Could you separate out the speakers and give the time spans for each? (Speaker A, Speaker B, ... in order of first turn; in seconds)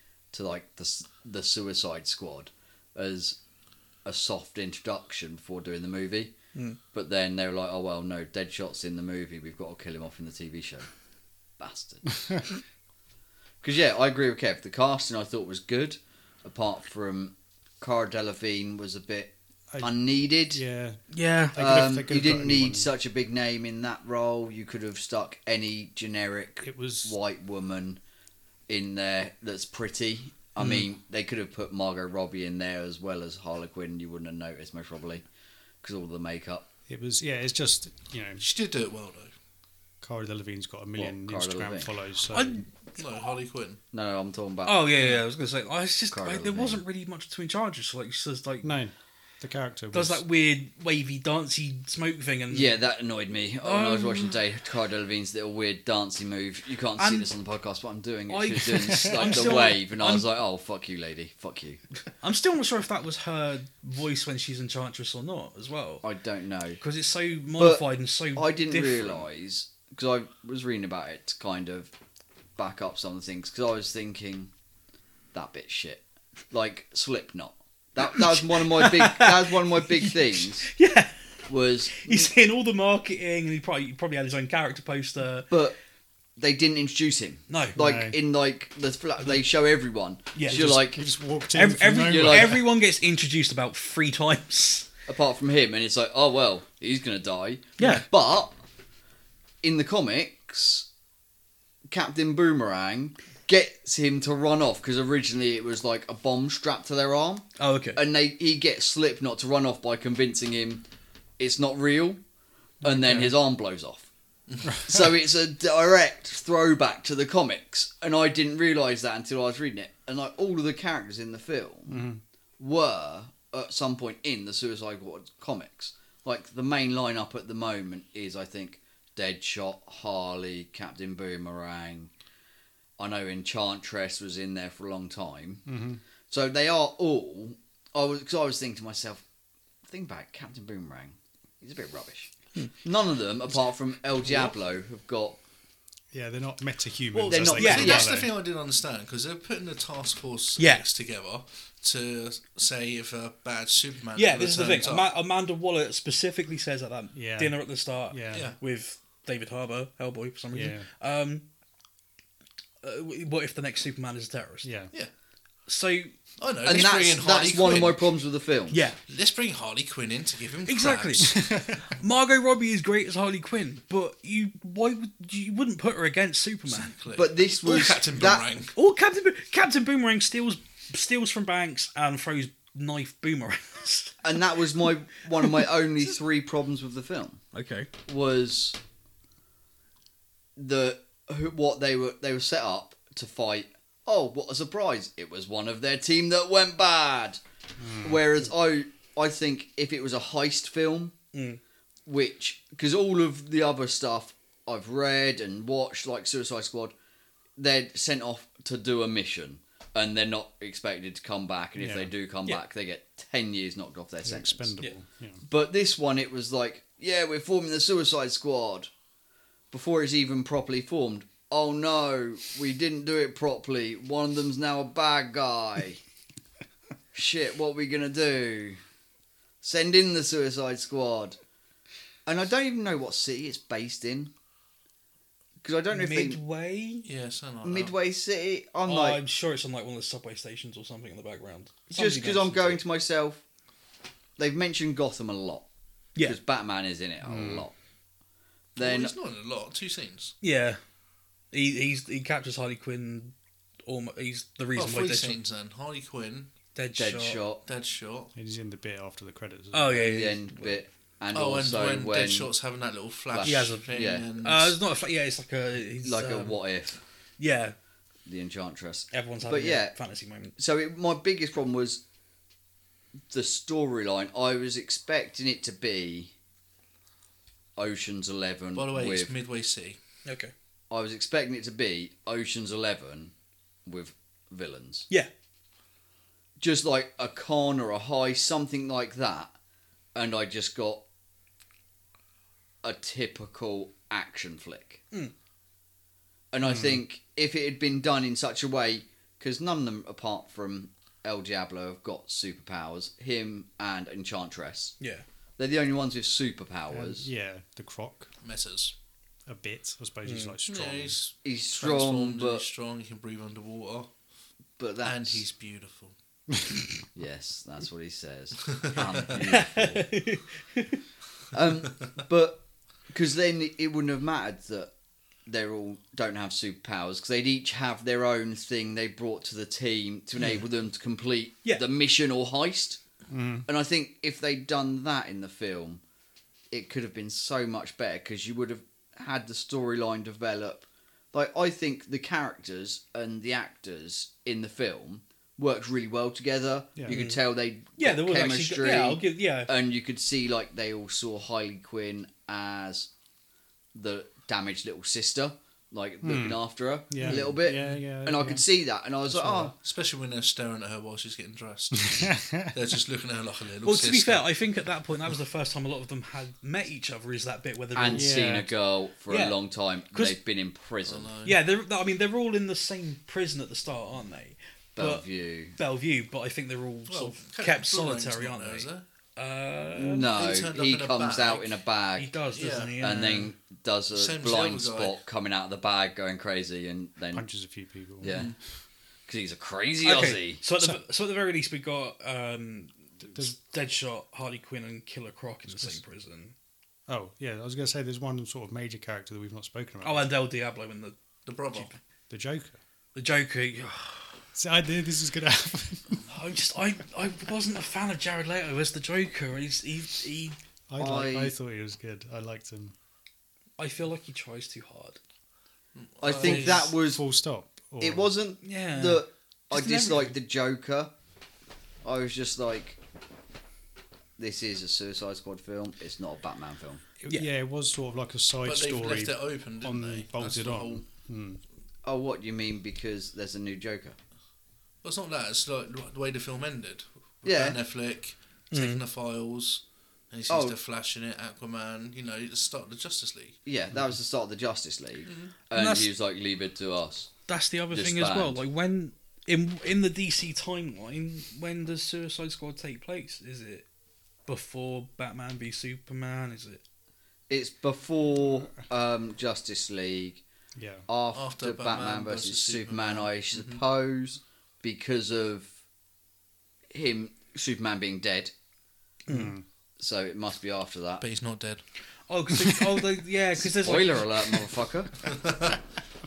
Speaker A: 0.3-3.4, 4.0-6.3, 6.9-10.9, 11.6-12.6, 13.6-20.6, 21.6-28.0, 28.7-35.2, 35.8-36.7, 41.0-41.9, 43.9-44.8, 46.1-46.8, 52.5-61.8, 66.0-66.8, 67.6-71.9, 72.6-74.5, 75.3-80.7, 81.5-82.3, 85.5-85.8, 86.4-91.0, 92.1-92.6, 95.1-98.6, 99.6-100.9, 101.9-110.8, 111.4-112.2, 112.8-114.1, 114.8-122.1, 122.6-132.1, 133.0-135.6, 136.3-139.2, 139.8-145.4, 147.2-148.1, 166.6-168.8, 177.1-178.4, 184.2-187.4, 188.1-188.8, 190.6-197.4, 198.0-201.1, 202.1-206.9, 207.6-214.7, 215.4-218.9, 219.7-226.0, 227.1-228.8, 229.6-231.4, 232.2-234.3, 235.6-236.4, 237.6-239.2, 241.9-243.4, 244.4-245.6, 246.2-247.7, 248.8-249.1, 257.0-257.6, 259.9-262.5, 263.3-264.2, 266.0-267.0, 268.2-269.9, 270.6-272.0, 273.3-276.3, 277.8-279.3, 280.9-283.3, 283.9-285.1, 286.6-289.5, 290.1-291.0, 292.8-295.0, 296.5-304.9, 305.6-307.3, 311.4-312.6, 314.8-315.4, 317.1-320.1, 321.5-324.9, 325.5-333.0, 333.7-336.0, 336.7-353.1, 353.9-359.7, 367.9-371.3, 375.0-375.8, 379.9-382.3, 383.0-387.4, 388.2-388.5, 389.3-390.6, 411.0-411.5, 416.2-417.2, 418.0-421.1, 422.0-423.0, 424.4-427.0, 432.0-434.2, 437.4-437.8, 440.5-440.8, 443.6-447.3, 447.9-448.6, 457.5-460.4, 461.1-465.7, 466.9-468.5, 470.0-471.2, 473.6-475.3
Speaker B: 20.5-22.9, 26.6-27.2, 36.9-38.4, 40.0-42.6, 48.6-50.2, 59.1-59.6, 87.8-88.2, 90.5-92.6, 112.8-113.3, 114.7-115.1, 121.9-122.2, 135.7-136.0, 146.1-148.3, 157.1-157.6, 158.1-158.5, 160.5-160.9, 164.6-164.9, 197.8-198.2, 211.8-212.1, 214.2-215.4, 247.2-247.7, 258.4-260.0, 296.6-297.0, 306.9-308.3, 309.5-311.2, 333.3-333.7, 347.0-347.2, 356.2-358.6, 359.3-359.7, 362.0-362.7, 368.1-368.7, 387.3-388.5, 393.2-393.5, 397.1-400.3, 402.3-402.8, 404.5-406.2, 410.9-412.9, 416.7-418.3, 427.2-431.6, 460.8-461.1, 469.3-469.6
Speaker C: 21.1-21.6, 30.6-30.9, 42.3-42.7, 44.6-48.8, 49.9-52.7, 53.6-54.4, 57.0-57.3, 58.3-60.3, 62.2-66.0, 66.8-69.3, 78.3-81.2, 81.9-85.5, 87.5-87.8, 90.3-90.8, 91.5-94.9, 97.8-98.1, 107.6-108.0, 147.1-148.0, 150.6-150.8, 154.2-161.4, 162.8-164.7, 165.7-166.1, 168.7-169.0, 170.7-176.9, 178.8-184.2, 187.5-187.9, 201.3-201.6, 235.9-237.1, 238.9-242.8, 250.4-250.8, 251.5-253.3, 253.8-255.4, 256.8-257.4, 259.7-260.8, 263.4-266.6, 267.4-267.8, 269.1-270.5, 280.2-280.5, 305.0-305.2, 310.2-310.6, 319.4-321.0, 347.1-347.4, 348.0-349.7, 363.8-368.5, 369.3-369.6, 370.1-370.4, 371.4-380.4, 382.2-383.5, 390.0-396.5, 400.0-401.1, 401.7-402.0, 403.1-404.4, 406.3-410.6, 413.8-415.2, 416.4-416.9, 418.6-420.4, 438.7-439.0, 445.7-446.1, 447.5-453.9, 454.5-456.8, 469.3-469.5, 472.3-474.6
Speaker D: 38.4-39.3, 43.0-43.8, 114.5-114.8, 147.6-155.1, 158.3-158.6, 166.4-168.1, 169.1-171.4, 176.7-178.8, 237.0-237.9, 248.8-250.3, 254.8-256.5, 257.6-258.3, 261.3-264.8, 278.8-280.0, 308.4-308.9, 310.6-314.1, 315.0-316.1, 318.8-319.1, 359.8-364.5, 371.0-371.6, 377.1-379.0, 380.2-381.8, 382.5-383.0, 384.1-385.2, 388.2-388.6, 401.5-401.9, 416.0-416.9, 428.6-431.0, 435.0-443.6, 445.2-445.5, 461.3-463.8, 471.2-471.8, 475.3-475.7